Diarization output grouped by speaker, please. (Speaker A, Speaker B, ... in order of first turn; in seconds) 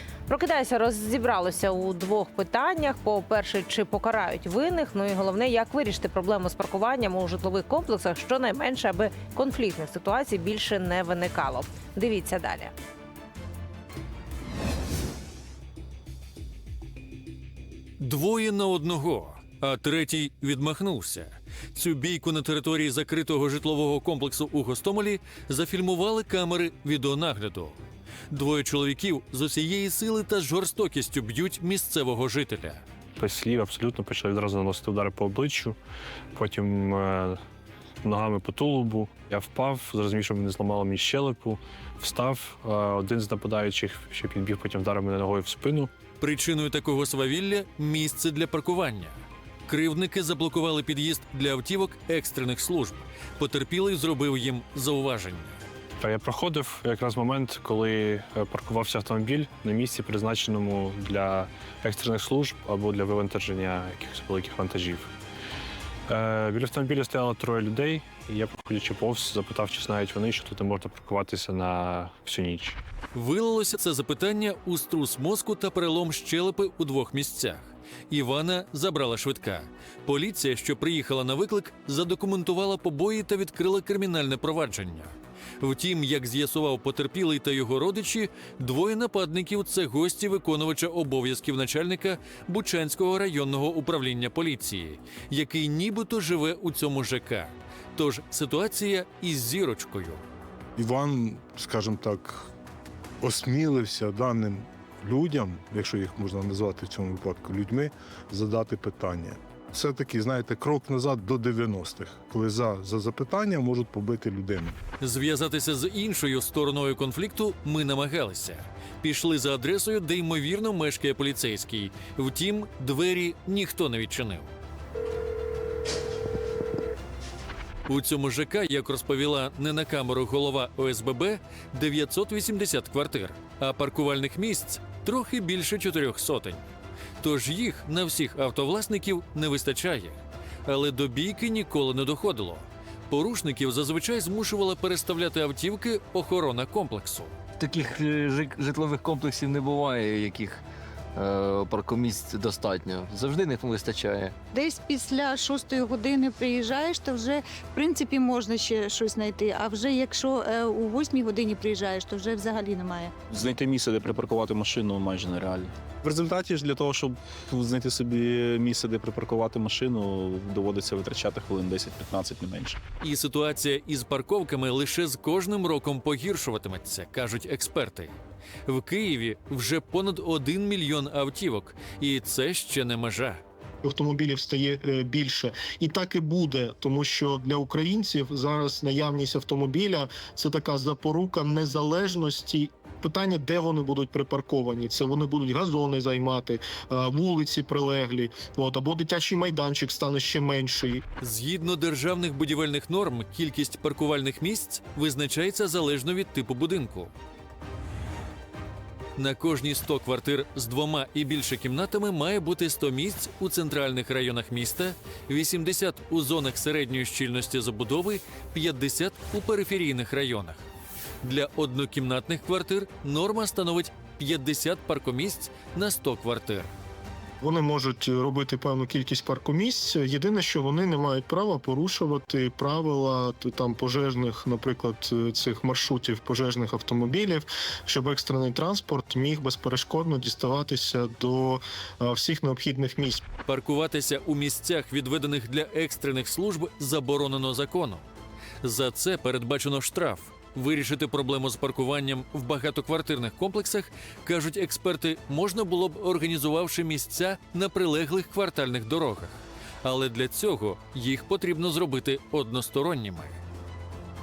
Speaker A: 0.3-12.7
Speaker B: 18.0-27.8, 28.3-32.8, 46.2-49.1, 49.7-55.6, 73.1-100.2, 115.0-124.5, 127.9-136.6, 137.2-147.3, 173.0-178.1, 178.7-183.4, 201.2-207.1, 209.2-220.6, 221.2-226.7, 243.4-248.0, 248.6-263.4
Speaker C: 33.2-35.8, 36.3-37.4, 38.0-45.9, 56.0-65.1, 66.1-72.8
Speaker D: 100.8-102.5, 103.2-114.8
Speaker E: 147.6-150.6, 151.2-154.3
Speaker F: 154.5-163.2
Speaker G: 163.3-172.8
Speaker H: 183.8-201.0, 227.4-243.2